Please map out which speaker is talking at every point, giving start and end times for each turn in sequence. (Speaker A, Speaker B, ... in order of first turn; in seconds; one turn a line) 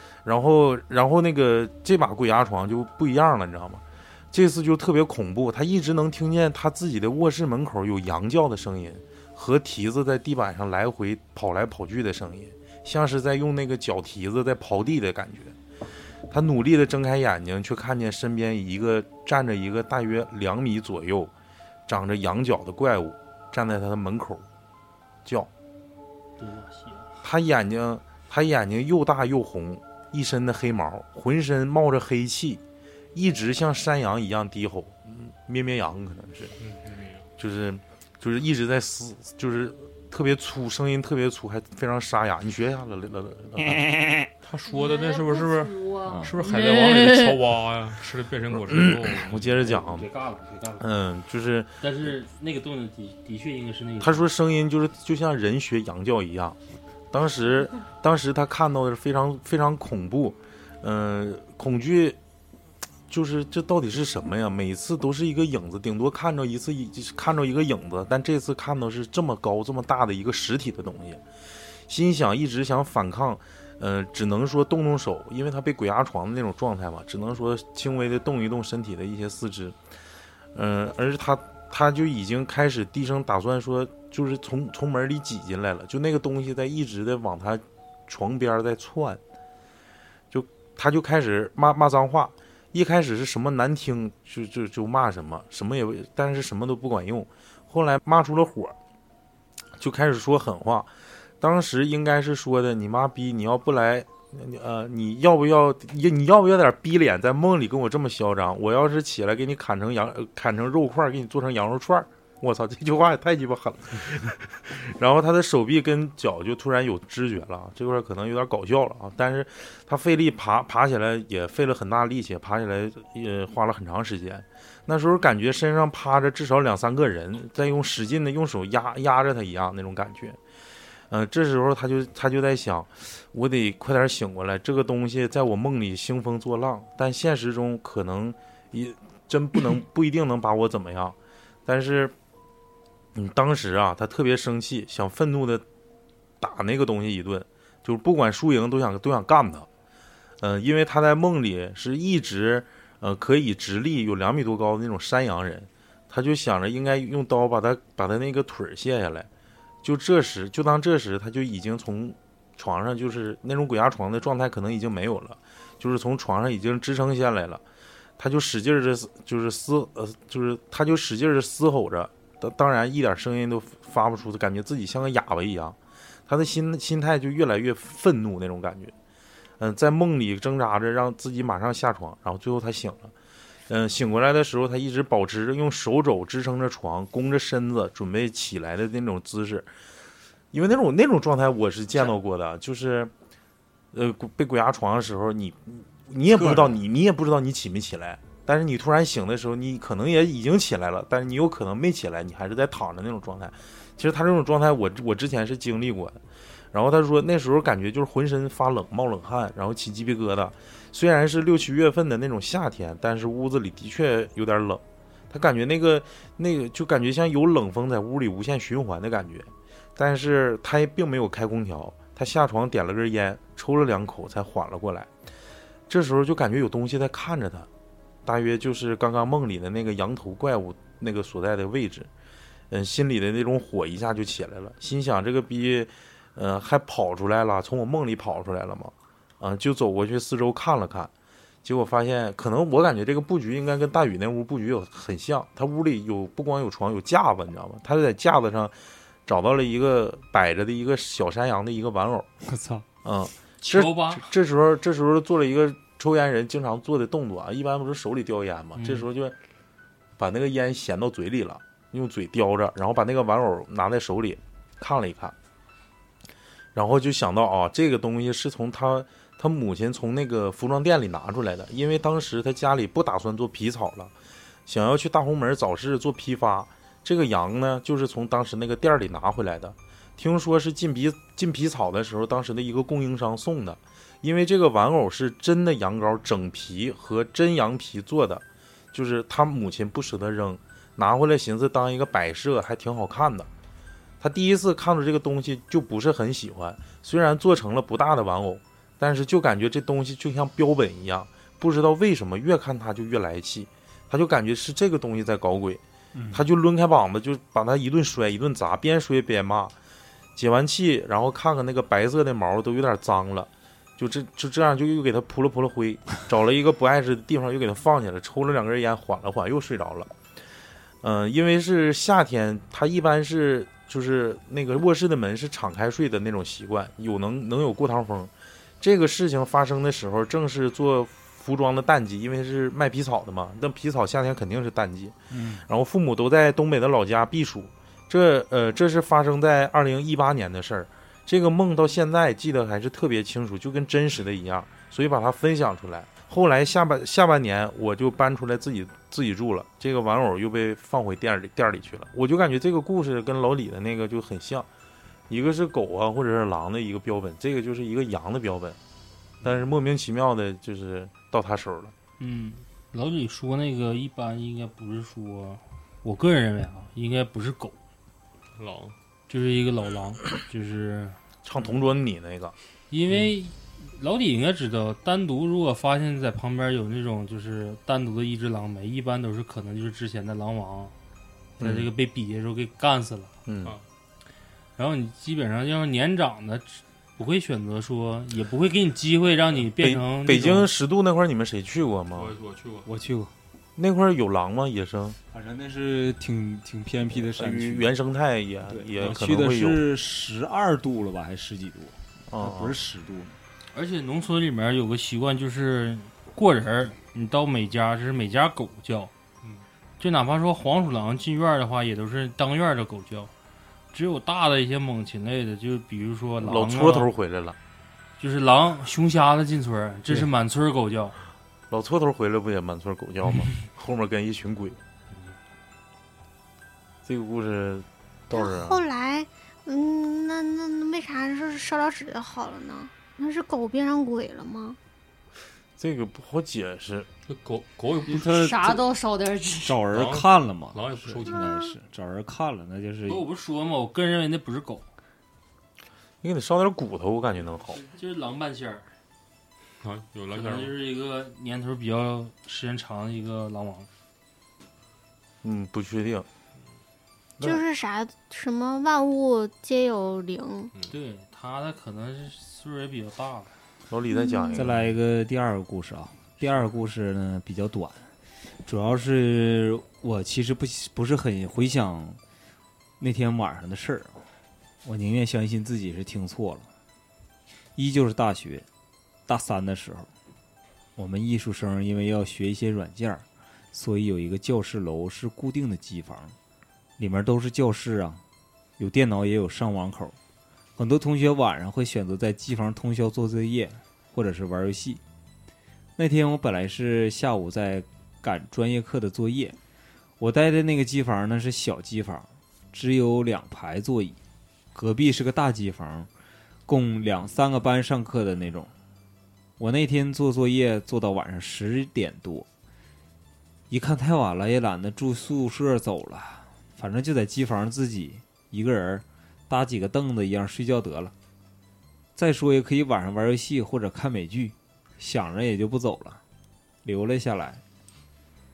Speaker A: 0.2-15.5
Speaker A: 16.3-21.3
Speaker A: 21.9-24.4
Speaker A: 25.2-25.5
Speaker B: 26.4-27.1
Speaker A: 27.2-32.6
Speaker A: 33.1-36.5
Speaker C: 36.6-37.2
Speaker A: 37.4-43.8
Speaker D: 43.6-44.3
Speaker C: 44.4-49.6
Speaker E: 44.6-47.4
Speaker D: 46.1-46.3
Speaker A: 48.5-50.1
Speaker B: 49.6-50.9
Speaker A: 50.8-51.8
Speaker B: 51.8-54.3
Speaker A: 54.0-56.6
Speaker A: 57.1-62.2
Speaker A: 63.1-71.2
Speaker A: 71.9-79.8
Speaker A: 80.5-89.2
Speaker A: 90.3-98.8
Speaker A: 99.8-100.9
Speaker A: 101.4-130.4
Speaker A: 131.1-142.1
Speaker A: 143.1-145.6
Speaker A: 146.4-149.7
Speaker A: 150.4-159.3
Speaker A: 159.8-167.6
Speaker A: 168.2-178.9
Speaker A: 179.6-183.1
Speaker A: 183.7-189.7
Speaker A: 190.5-193.1
Speaker A: 193.9-206.2
Speaker D: 196.3-196.8
Speaker A: 206.7-225.1
Speaker A: 225.9-227.7
Speaker A: 228.2-232.1
Speaker A: 232.7-241.1
Speaker A: 241.6-248.7
Speaker A: 249.2-252.3
Speaker D: 252.4-252.8
Speaker A: 253.0-259.4
Speaker B: 253.6-254.2
Speaker B: 258.8-259.1
Speaker A: 260.2-265.3
Speaker A: 266.7-274.1
Speaker A: 274.6-293.5
Speaker A: 294.2-309.8
Speaker D: 306.1-306.4
Speaker A: 310.4-320.1
Speaker A: 321.0-354.7
Speaker D: 335.3-335.6
Speaker A: 355.3-358.8
Speaker A: 359.4-361.9
Speaker B: 362.2-367.8
Speaker C: 368.6-368.9
Speaker B: 369.3-371.2
Speaker A: 371.4-372.5
Speaker B: 372.9-380.9
Speaker A: 381.6-381.9
Speaker B: 381.6-383.3
Speaker A: 383.4-383.8
Speaker B: 384.8-390.7
Speaker A: 389.8-392.3
Speaker C: 392.1-392.9
Speaker D: 392.8-393.3
Speaker A: 393.8-395.2
Speaker D: 395.3-397.9
Speaker A: 397.3-399.8
Speaker D: 398.6-403.3
Speaker A: 402.3-402.8
Speaker B: 403.7-409.1
Speaker B: 410.0-413.3
Speaker B: 413.9-417.1
Speaker A: 416.4-417.6
Speaker B: 418.2-421.2
Speaker A: 421.7-424.8
Speaker A: 427.0-428.8
Speaker F: 428.3-434.8
Speaker A: 435.8-437.1
Speaker C: 437.2-438.6
Speaker D: 438.1-438.8
Speaker E: 438.2-439.9
Speaker D: 439.6-443.2
Speaker C: 439.9-441.4
Speaker F: 441.3-441.7
Speaker B: 443.1-444.9
Speaker A: 446.2-447.8
Speaker B: 447.7-448.9
Speaker C: 449.8-450.7
Speaker B: 450.3-453.9
Speaker A: 455.4-456.3
Speaker F: 457.4-460.7
Speaker B: 460.9-463.6
Speaker A: 463.9-464.8
Speaker F: 464.1-464.7
Speaker D: 464.5-468.1
Speaker D: 468.6-472.2
Speaker D: 473.0-474.2
Speaker D: 474.8-476.7
Speaker D: 477.8-478.6
Speaker D: 479.3-480.1
Speaker D: 480.9-486.3
Speaker D: 487.0-488.2
Speaker D: 488.8-490.2
Speaker D: 490.8-495.0
Speaker D: 496.0-499.6
Speaker D: 500.2-504.2
Speaker D: 504.7-506.1
Speaker D: 506.7-508.7
Speaker D: 509.6-512.5
Speaker D: 513.7-521.1
Speaker D: 522.1-526.2
Speaker D: 526.8-527.6